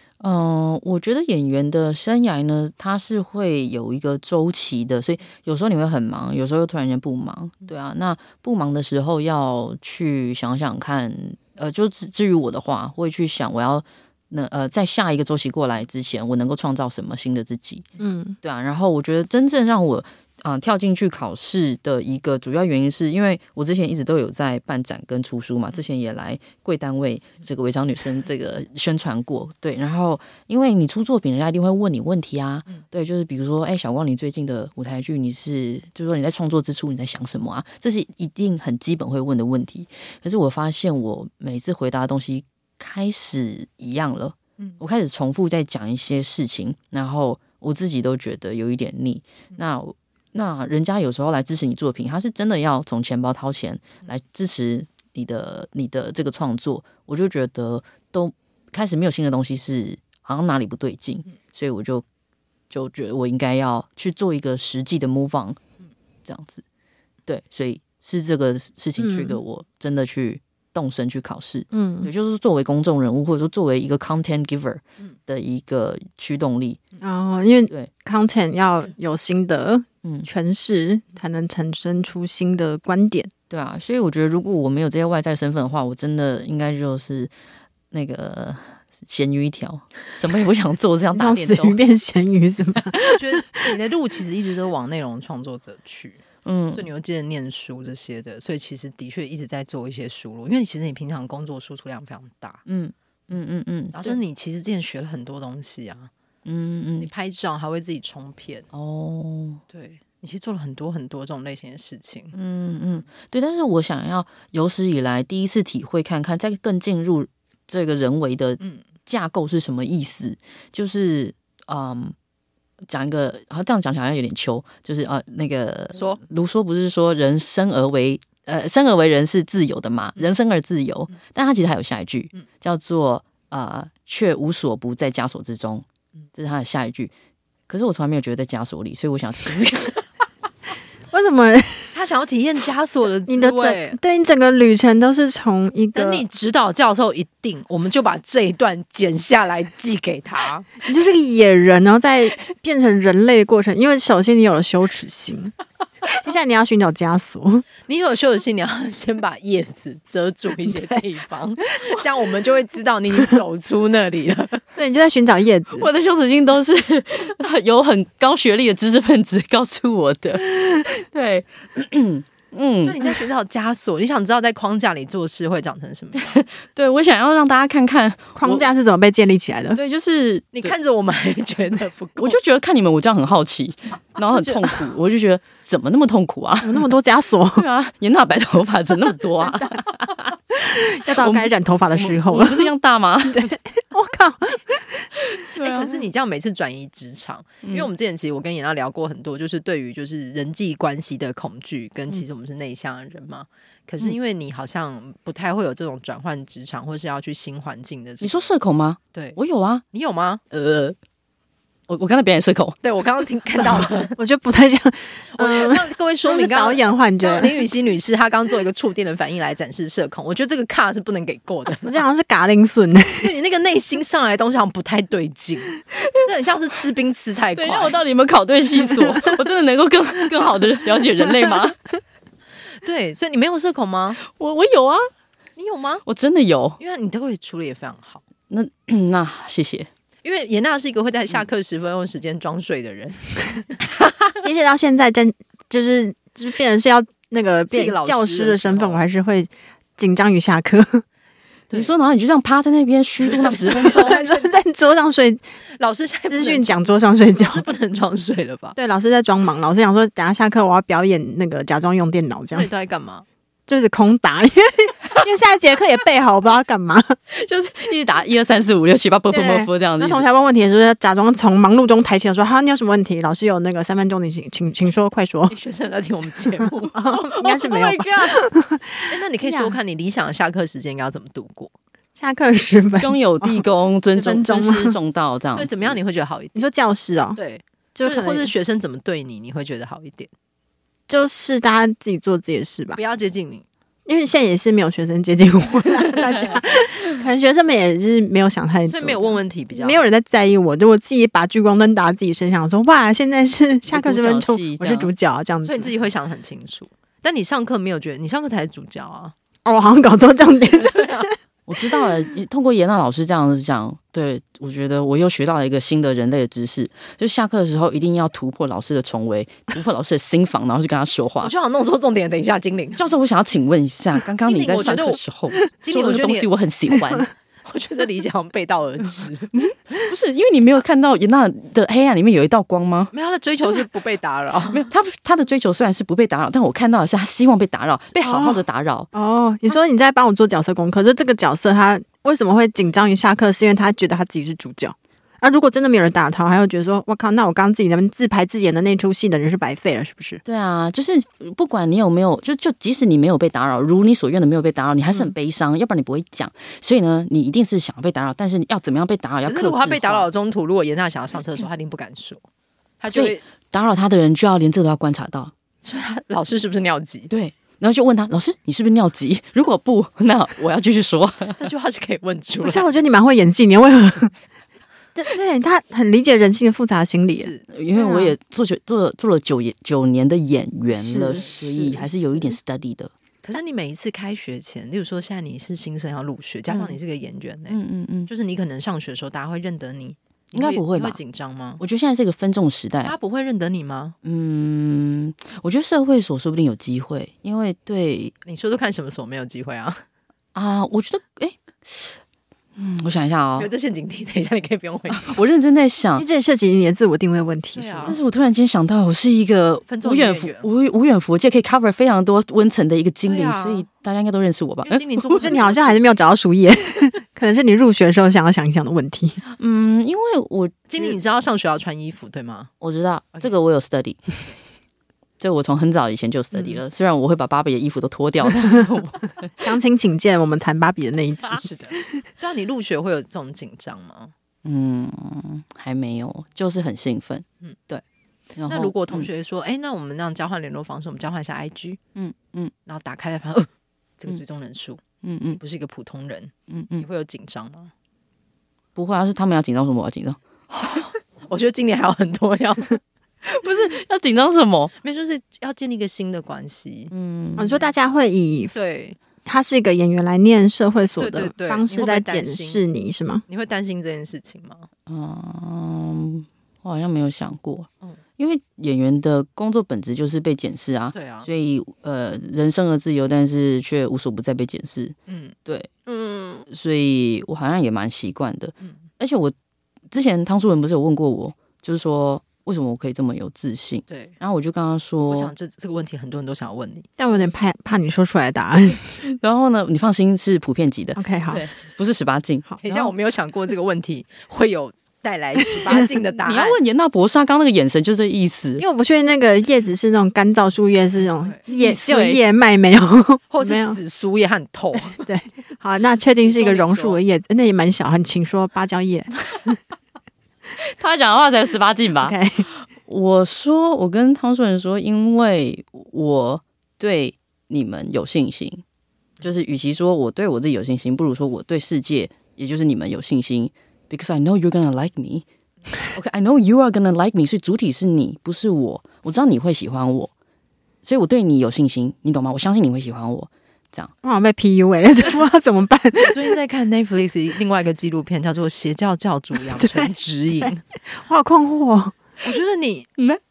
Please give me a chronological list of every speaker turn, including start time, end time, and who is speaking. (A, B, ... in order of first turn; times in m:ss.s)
0:00.2-0:17.9 A
0:18.0-0:18.4 B
0:18.4-1:02.0 A
1:02.7-1:05.6 A
1:06.2-1:06.6 A
1:07.3-1:16.8 A
1:09.0-1:09.4 B
1:11.7-1:12.1 B
1:17.0-1:23.3 B
1:20.0-1:20.3 A
1:23.5-1:27.3 A
1:27.9-1:31.8 A
1:31.1-1:33.7 B
1:33.0-1:36.2 C
1:36.4-1:36.9 A
1:36.7-1:42.6 C
1:42.6-1:44.2 A
1:43.9-1:46.1 C
1:46.4-1:47.1 A
1:47.0-1:48.6 C
1:48.7-1:49.6 A
1:49.7-1:52.3 C
1:52.3-2:02.1 A
2:02.9-2:17.1 A
2:05.9-2:06.2 C
2:17.7-2:20.0 A
2:21.1-2:21.9 B
2:21.9-2:24.0 C
2:23.2-2:26.2 B
2:25.9-2:30.7 C
2:30.8-2:35.5 B
2:36.1-2:37.6 B
2:37.9-2:44.6 C
2:44.8-2:45.9 B
2:45.8-2:53.1 A
2:52.8-2:56.4 C
2:56.2-2:58.7 A
2:58.4-2:59.8 B
2:59.8-3:00.7 A
3:00.5-3:02.4 C
3:02.2-3:06.9 A
3:04.3-3:04.8 B
3:06.6-3:07.6 B
3:07.5-3:10.3 A
3:10.5-3:12.7 B
3:11.1-3:13.5 A
3:13.3-3:15.1 B
3:15.2-3:16.0 A
3:15.6-3:28.5 C
3:17.6-3:17.9 A
3:28.2-3:29.8 A
3:29.9-3:30.4 C
3:30.5-3:30.9 A
3:31.9-3:32.8 A
3:32.8-3:34.2 C
3:33.8-3:37.6 B
3:35.3-3:42.0 C
3:41.9-3:43.3 B
3:43.2-3:48.0 C
3:45.9-3:46.3 A
3:47.6-3:51.9 A
3:52.8-3:54.2 C
3:54.2-3:55.1 A
3:55.6-3:56.0 C
3:56.1-3:56.8 A
3:56.8-3:58.2 C
3:58.5-3:59.9 A
4:00.2-4:03.8 C
4:04.4-4:11.0 B
4:07.7-4:09.0 C
4:11.7-4:14.2 A
4:13.3-4:14.5 C
4:13.7-4:15.4 B
4:15.7-4:16.8 C
4:16.3-4:17.6 B
4:17.4-4:18.8 C
4:18.8-4:22.7 B
4:22.5-4:23.2 C
4:23.7-4:27.2 B
4:27.3-4:30.2 A
4:29.3-4:35.5 B
4:35.5-4:37.0 C
4:36.9-4:39.7 B
4:37.3-4:38.4 A
4:39.1-4:41.7 C
4:42.2-4:45.0 B
4:43.0-4:46.0 A
4:45.6-4:46.6 C
4:46.6-4:47.4 B
4:47.4-4:50.3 C
4:47.9-4:48.5 B
4:51.1-4:53.0 B
4:53.0-4:53.6 C
4:54.1-5:05.9 B
4:58.9-5:00.0 C
5:03.9-5:05.1 A
5:05.6-5:09.4 C
5:09.6-5:11.3 B
5:10.7-5:11.3 C
5:11.7-5:21.5 A
5:21.4-5:23.0 C
5:23.0-5:27.3 A
5:24.4-5:25.2 C
5:25.8-5:26.5 C
5:27.6-5:29.5 C
5:29.5-5:33.1 A
5:33.1-5:34.8 C
5:34.7-5:39.1 A
5:38.2-5:38.5 C
5:38.3-5:38.6 B
5:39.1-5:50.4 B
5:50.4-6:00.3 A
5:59.4-6:02.4 C
6:03.0-6:03.4 C
6:03.1-6:05.5 A
6:05.8-6:07.3 C
6:07.3-6:11.6 A
6:11.6-6:12.9 C
6:12.6-6:14.3 B
6:15.1-6:18.4 B
6:17.3-6:17.6 C
6:17.7-6:23.1 A
6:20.9-6:22.0 B
6:23.4-6:31.8 C
6:26.7-6:26.9 A
6:27.7-6:28.3 A
6:30.5-6:31.2 A
6:31.8-6:33.1 A
6:33.0-6:34.1 C
6:34.2-6:38.3 A
6:38.4-6:40.0 C
6:40.6-6:42.2 A
6:42.8-6:43.7 A
6:43.6-6:45.4 C
6:45.1-6:46.2 A
6:46.2-6:48.2 B
6:47.7-6:48.2 C
6:48.1-6:55.6 A
6:49.9-6:50.7 C
6:53.2-6:53.9 C
6:54.8-6:56.2 C
6:55.4-6:59.4 B
6:59.5-7:00.8 A
7:00.9-7:02.7 C
7:02.8-7:04.3 A
7:05.4-7:09.5 A
7:09.6-7:12.2 B
7:11.4-7:14.3 C
7:14.6-7:18.0 A
7:18.6-7:19.3 A
7:18.7-7:22.0 C
7:22.1-7:22.7 A
7:22.9-7:25.0 C
7:25.2-7:25.6 A
7:25.5-7:27.9 C
7:26.7-7:27.0 A
7:28.9-7:30.4 A
7:30.7-7:33.0 C
7:33.4-7:34.9 A
7:35.0-7:37.1 C
7:37.1-7:37.8 A
7:37.6-7:38.7 B
7:38.7-7:39.2 C
7:39.4-7:43.4 B
7:41.2-7:42.8 C
7:43.5-7:44.9 C
7:45.1-7:55.9 A
7:51.1-7:51.5 C
7:55.3-7:56.6 C
7:56.7-7:59.5 A
8:00.1-8:05.5 A
8:04.1-8:04.3 C
8:05.3-8:07.1 C
8:07.2-8:09.2 B
8:09.2-8:13.1 A
8:11.2-8:11.6 B
8:12.8-8:16.8 C
8:15.9-8:18.8 A
8:18.8-8:24.0 B
8:21.4-8:21.6 C
8:21.7-8:22.4 A
8:23.5-8:25.2 C
8:25.1-8:29.7 B
8:26.4-8:27.2 C
8:30.8-8:38.8 A
8:32.2-8:32.6 B
8:39.4-8:45.4 A
8:46.0-8:50.3 A
8:51.0-8:54.1 A
8:54.2-8:56.4 B
8:56.2-9:00.8 C
8:59.7-9:02.2 B
9:02.4-9:03.1 C